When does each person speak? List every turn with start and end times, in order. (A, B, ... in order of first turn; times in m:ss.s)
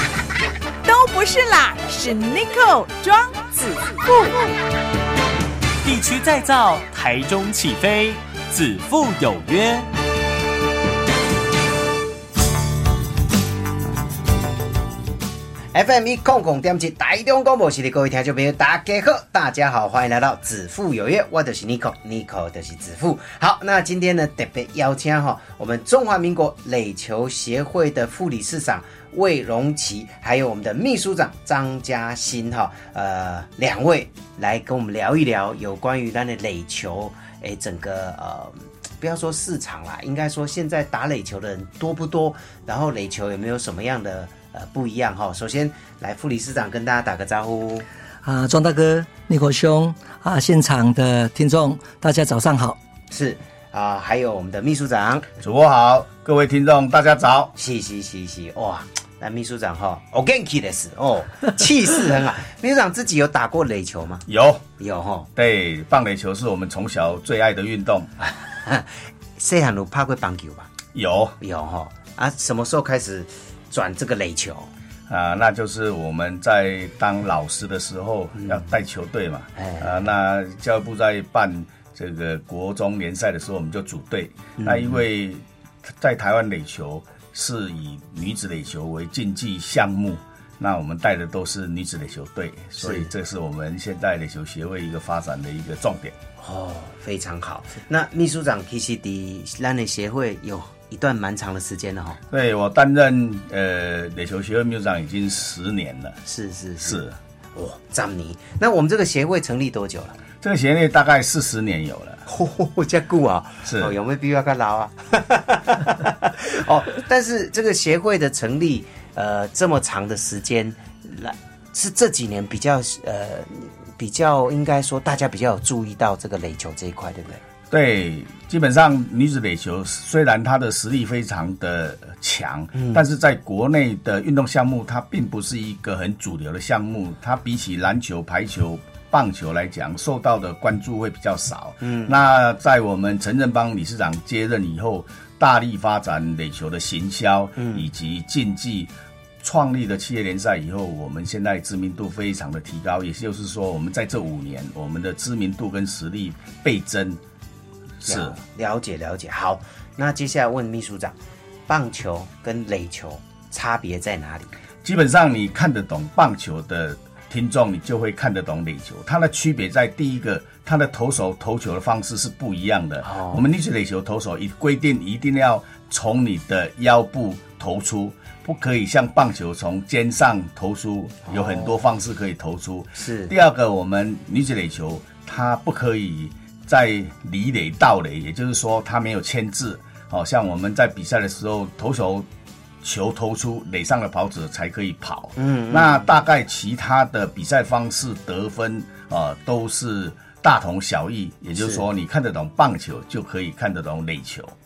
0:00.8-0:04.4 A
0:06.1-0:09.8 B
0:15.7-0:47.9 C
0:48.2-0:52.8 D
0:53.1-0:55.3 C
0:55.4-0:57.5 E
0:57.6-1:04.2 C
1:04.3-1:04.6 E
1:04.8-1:05.3 C
1:05.4-1:08.1 E
1:08.2-1:10.7 C
1:10.9-1:11.4 E
1:11.4-1:14.7 C
1:15.1-1:25.4 E
1:18.4-1:18.7 C
1:19.6-1:20.1 C
1:24.6-1:25.0 C
1:26.0-1:36.1 E
1:32.8-1:33.1 C
1:36.4-1:42.2 C
1:42.3-1:46.2 E
1:46.2-1:47.0 C
1:46.8-1:47.2 E
1:47.5-1:50.2 C
1:50.4-1:52.2 E
1:52.2-2:07.4 C
1:53.6-1:53.9 E
2:07.7-2:37.2 E
2:12.7-2:13.0 C
2:21.8-2:22.2 C
2:27.6-2:27.9 C
2:38.0-2:38.4 E
2:38.1-2:41.2 C
2:41.7-2:44.5 C
2:44.8-3:12.3 E
2:53.0-2:53.5 C
3:01.2-3:01.9 C
3:03.0-3:03.3 C
3:12.8-3:24.5 E
3:15.4-3:16.2 C
3:21.5-3:21.8 C